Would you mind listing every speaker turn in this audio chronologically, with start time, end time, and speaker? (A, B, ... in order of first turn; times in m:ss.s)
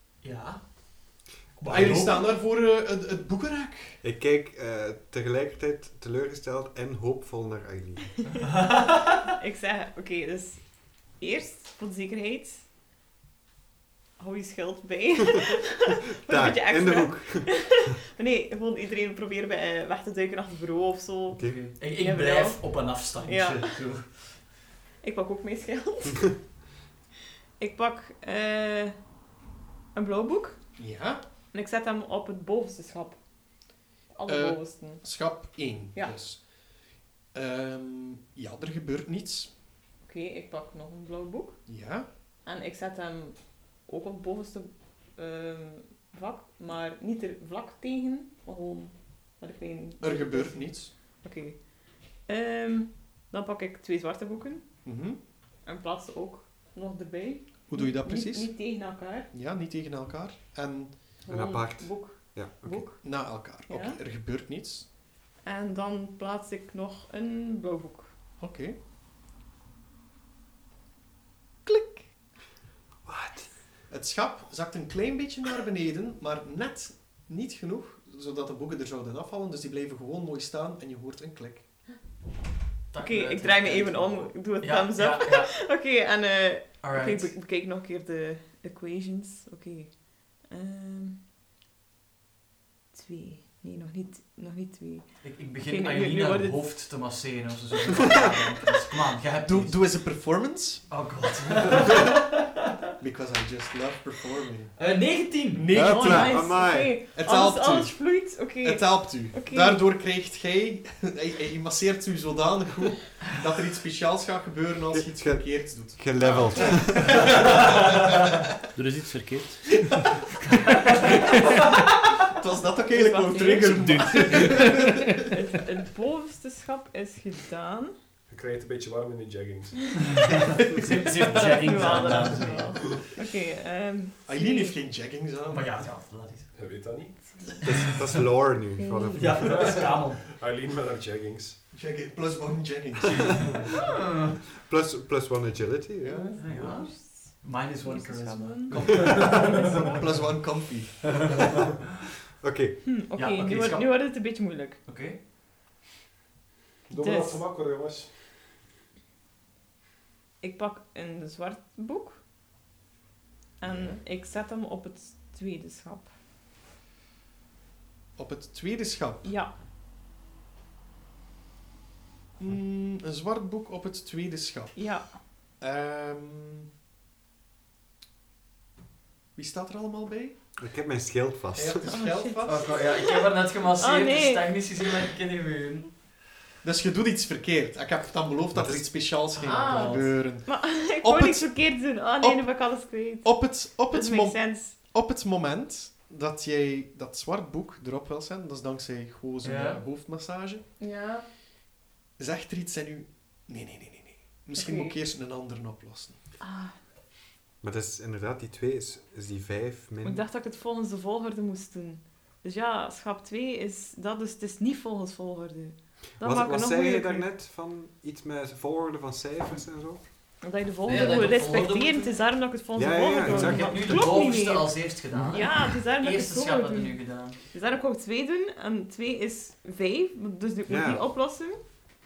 0:00.2-0:02.3 A
0:01.7-0:04.0 B
0:04.0-0:08.2 C
0:08.5-0:09.2 A
0:09.4-0:12.7 D
0:14.2-0:23.9 D
0:16.2-0:17.8 C
0:21.3-0:21.6 C
0:21.4-0:24.4 A
0:25.0-0:26.4 D
0:27.6-0:29.0 D
0:29.9-0:30.6 D
0:30.8-0:31.2 B
0:31.5-0:33.2 D
0:34.1-0:35.0 D
0:34.3-0:39.5 B
0:40.0-0:41.6 D
0:41.7-0:42.1 B
0:42.4-0:54.8 D
0:50.0-0:50.9 B
0:54.8-0:55.2 B
0:55.6-0:59.3 D
0:57.7-0:58.6 B
0:59.3-1:01.2 B
1:01.2-1:04.0 D
1:01.3-1:02.9 C
1:03.0-1:04.9 B
1:05.4-1:08.1 D
1:08.4-1:08.8 B
1:11.6-1:12.1 D
1:13.9-1:21.7 B
1:22.9-1:25.5 A
1:23.0-1:31.2 D
1:26.8-1:27.4 A
1:32.9-1:36.6 D
1:35.2-1:39.8 A
1:39.4-1:40.9 B
1:40.9-1:42.3 A
1:43.0-1:44.8 B
1:44.8-1:46.1 A
1:45.5-1:58.4 B
1:45.7-1:47.0 C
1:45.9-1:49.8 D
1:54.9-1:57.4 C
1:58.8-1:59.8 E
2:02.2-2:05.2 B
2:02.9-2:04.7 D
2:03.8-2:05.2 E
2:05.2-2:07.9 D
2:08.3-2:10.2 F
2:10.2-2:13.0 A
2:11.2-2:14.8 D
2:12.0-2:12.5 B
2:14.3-2:15.8 B
2:15.5-2:16.6 A
2:16.5-2:17.5 F
2:17.6-2:19.6 C
2:18.8-2:19.2 D
2:19.2-2:20.2 A
2:19.4-2:21.6 F
2:21.7-2:23.7 B
2:23.9-2:24.3 A
2:24.6-2:26.4 C
2:26.0-2:26.6 B
2:26.1-2:30.1 D
2:26.4-2:29.9 A
2:28.7-2:31.5 B
2:32.4-2:32.8 C
2:32.8-2:34.8 D
2:33.2-2:35.2 A
2:36.9-2:38.1 F
2:37.0-2:37.5 D
2:40.4-2:42.2 D
2:43.6-2:46.1 D
2:43.6-2:44.0 B
2:48.2-2:49.3 B
2:49.2-2:49.5 D
2:52.4-2:54.8 B
2:54.8-2:55.2 D
2:55.6-2:56.7 B
2:59.4-3:00.4 B
3:00.6-3:01.9 C
3:01.6-3:02.7 B
3:01.8-3:02.5 D
3:02.4-3:06.0 A
3:03.8-3:04.7 D
3:06.6-3:11.6 B
3:08.5-3:09.2 C
3:09.4-3:10.1 A
3:09.4-3:14.8 D
3:12.2-3:20.6 B
3:19.4-3:19.8 A
3:20.8-3:21.2 D
3:22.2-3:26.2 B
3:24.6-3:25.0 D
3:26.4-3:26.7 D
3:27.6-3:30.2 C
3:30.0-3:37.3 D
3:36.2-3:40.0 C
3:40.4-3:51.6 D
3:40.8-3:42.2 A
3:42.8-3:43.7 C
3:43.2-3:47.4 A
3:45.1-3:45.4 E
3:50.7-3:51.1 C